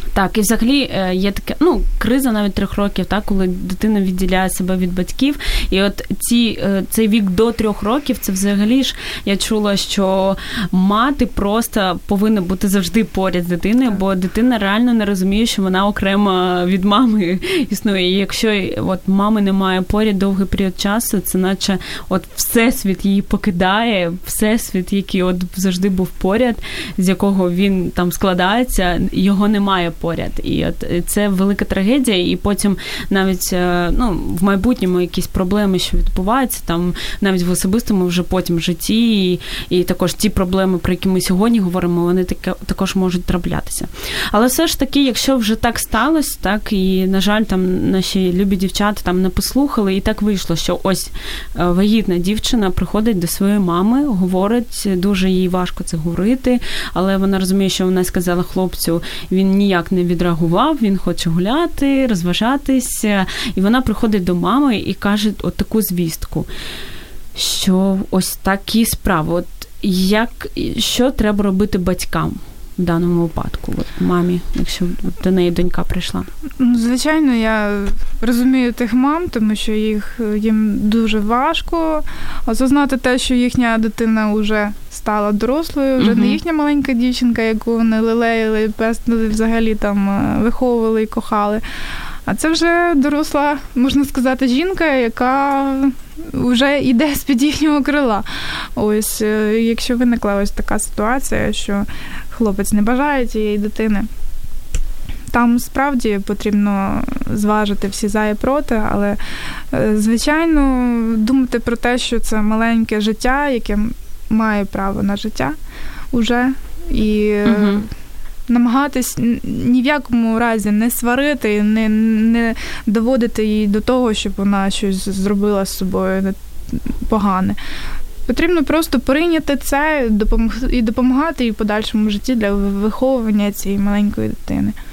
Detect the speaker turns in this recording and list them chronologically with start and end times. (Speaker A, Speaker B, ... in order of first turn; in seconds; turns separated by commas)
Speaker A: 0.1-66.5, Speaker A: 67.3-76.3, Speaker B: 76.6-91.6, Speaker A: 86.0-86.4, Speaker B: 92.3-104.1, Speaker B: 105.3-109.2, Speaker B: 109.7-115.5, Speaker B: 116.1-117.9, Speaker A: 117.5-117.8, Speaker B: 118.5-127.6, Speaker B: 128.3-134.7